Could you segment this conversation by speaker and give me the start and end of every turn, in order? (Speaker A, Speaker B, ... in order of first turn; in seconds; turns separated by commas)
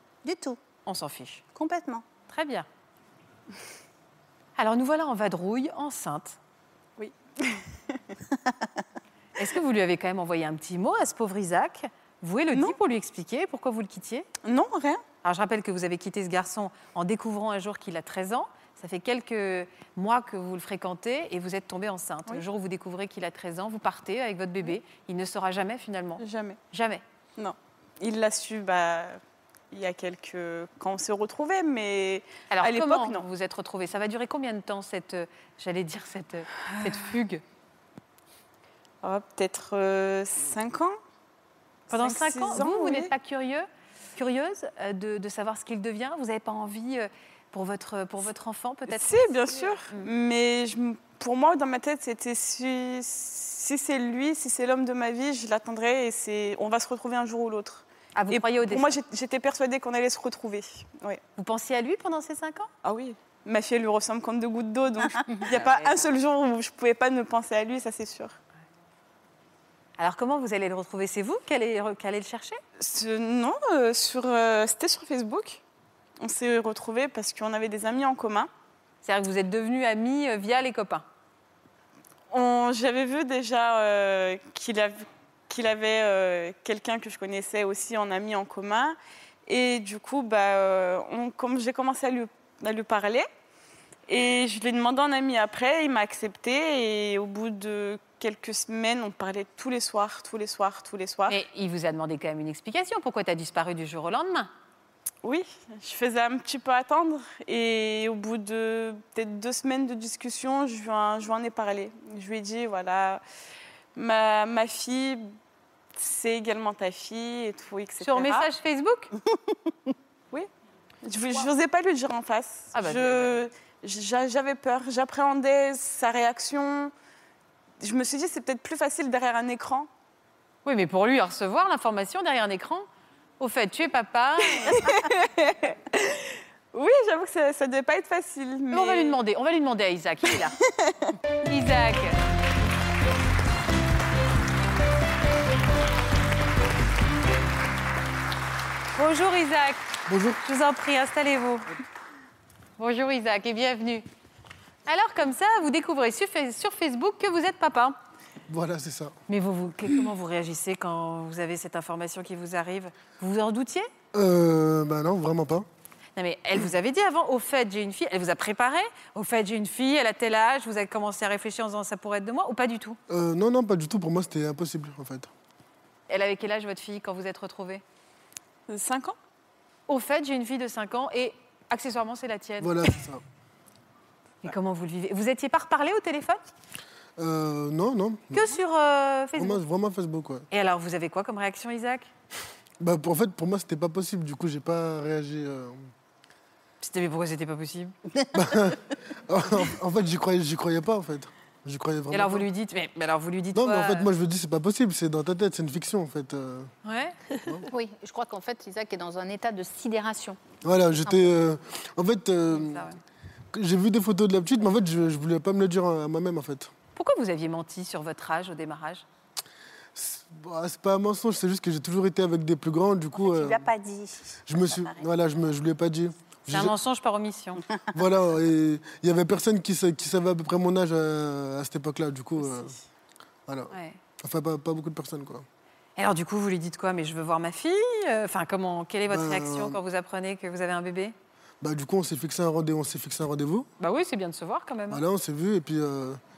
Speaker A: 0.2-0.6, Speaker B: 0.8-1.4, Speaker A: 1.5-2.0, Speaker B: 2.3-2.7, Speaker B: 4.6-6.4, Speaker C: 7.0-7.6, Speaker B: 9.3-14.3, Speaker C: 14.4-15.0, Speaker B: 15.2-27.0, Speaker C: 26.2-26.6, Speaker C: 27.4-33.2, Speaker B: 32.5-37.4, Speaker C: 39.0-41.0, Speaker C: 41.9-43.1, Speaker B: 41.9-50.1, Speaker C: 48.9-61.2, Speaker B: 58.1-59.0, Speaker B: 61.4-62.7, Speaker C: 62.8-68.3, Speaker B: 70.0-72.6, Speaker C: 72.8-75.6, Speaker C: 76.2-78.5, Speaker B: 79.0-81.0, Speaker C: 82.3-93.3, Speaker C: 94.1-101.4, Speaker B: 101.3-104.5, Speaker C: 105.2-113.2, Speaker C: 114.0-115.3, Speaker C: 115.9-118.5, Speaker B: 118.0-119.1, Speaker C: 121.0-126.9, Speaker B: 122.7-123.3, Speaker C: 127.8-129.9, Speaker B: 130.6-132.9, Speaker B: 133.4-134.9, Speaker C: 134.5-139.2, Speaker B: 138.7-140.6, Speaker C: 140.7-141.1, Speaker B: 141.4-142.2, Speaker B: 148.9-149.8, Speaker D: 150.1-150.4, Speaker B: 150.4-151.8, Speaker B: 152.8-154.0, Speaker B: 154.8-158.0, Speaker D: 158.5-159.1, Speaker B: 159.3-163.9, Speaker D: 164.1-165.7, Speaker B: 166.2-173.0, Speaker D: 173.1-175.3, Speaker B: 176.1-177.8, Speaker C: 178.7-179.2, Speaker B: 179.9-182.9, Speaker D: 182.6-183.2, Speaker B: 184.4-186.4, Speaker D: 187.2-188.5, Speaker B: 188.3-189.6, Speaker D: 189.3-190.4, Speaker B: 190.5-192.1, Speaker D: 192.8-195.9, Speaker B: 196.8-197.9, Speaker D: 198.3-202.5, Speaker B: 202.1-204.1, Speaker D: 203.5-206.7, Speaker B: 206.8-207.2, Speaker E: 207.7-210.4, Speaker D: 210.6-212.9, Speaker B: 212.5-213.0, Speaker D: 213.5-216.7, Speaker B: 216.9-219.0, Speaker D: 219.9-223.6, Speaker A: 223.1-225.0, Speaker D: 224.4-226.7, Speaker B: 226.5-227.6, Speaker D: 227.9-232.8, Speaker D: 233.5-235.4, Speaker B: 233.7-234.0, Speaker B: 236.0-241.1, Speaker D: 239.1-239.8, Speaker D: 241.6-243.7, Speaker B: 243.8-245.0, Speaker D: 244.9-246.2